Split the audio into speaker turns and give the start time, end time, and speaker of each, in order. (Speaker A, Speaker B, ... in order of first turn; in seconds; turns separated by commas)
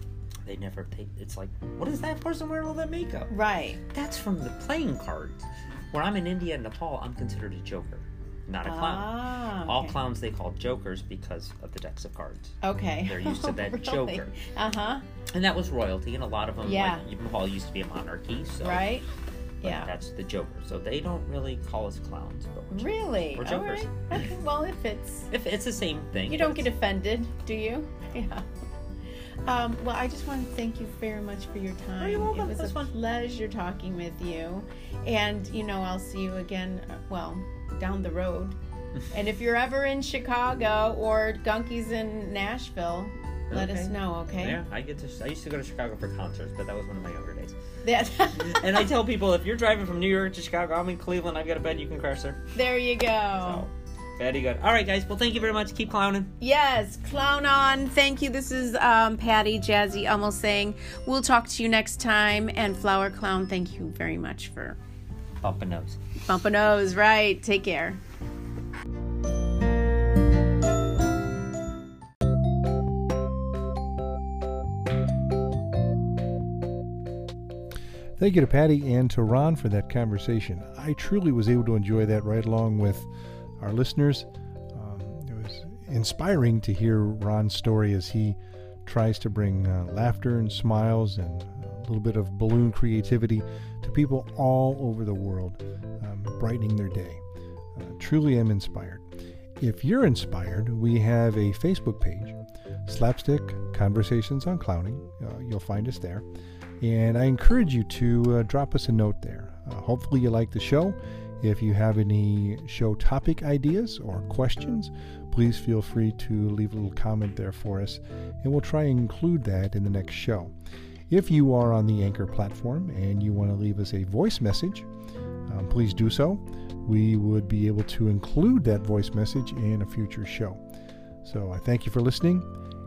Speaker A: 0.5-3.3, Speaker B: 3.3-3.8, Speaker A: 3.9-14.3, Speaker B: 8.6-10.0, Speaker B: 12.6-15.0, Speaker A: 15.3-18.9, Speaker B: 16.6-17.0, Speaker B: 18.6-19.1, Speaker B: 19.6-19.9, Speaker A: 19.6-24.2, Speaker B: 22.7-25.3, Speaker A: 25.3-26.7, Speaker B: 26.3-28.5, Speaker B: 29.5-38.6, Speaker A: 32.0-32.9, Speaker B: 39.1-44.6, Speaker A: 43.5-47.6, Speaker B: 47.8-48.8, Speaker A: 48.3-52.4, Speaker B: 52.5-53.7, Speaker A: 53.4-56.3, Speaker B: 56.4-64.8, Speaker A: 65.4-66.0, Speaker B: 66.3-68.0, Speaker C: 78.2-83.1, Speaker C: 83.6-97.2, Speaker C: 97.8-99.0, Speaker C: 99.6-106.2, Speaker C: 106.8-120.5, Speaker C: 121.1-124.9, Speaker C: 125.5-130.6, Speaker C: 131.2-132.5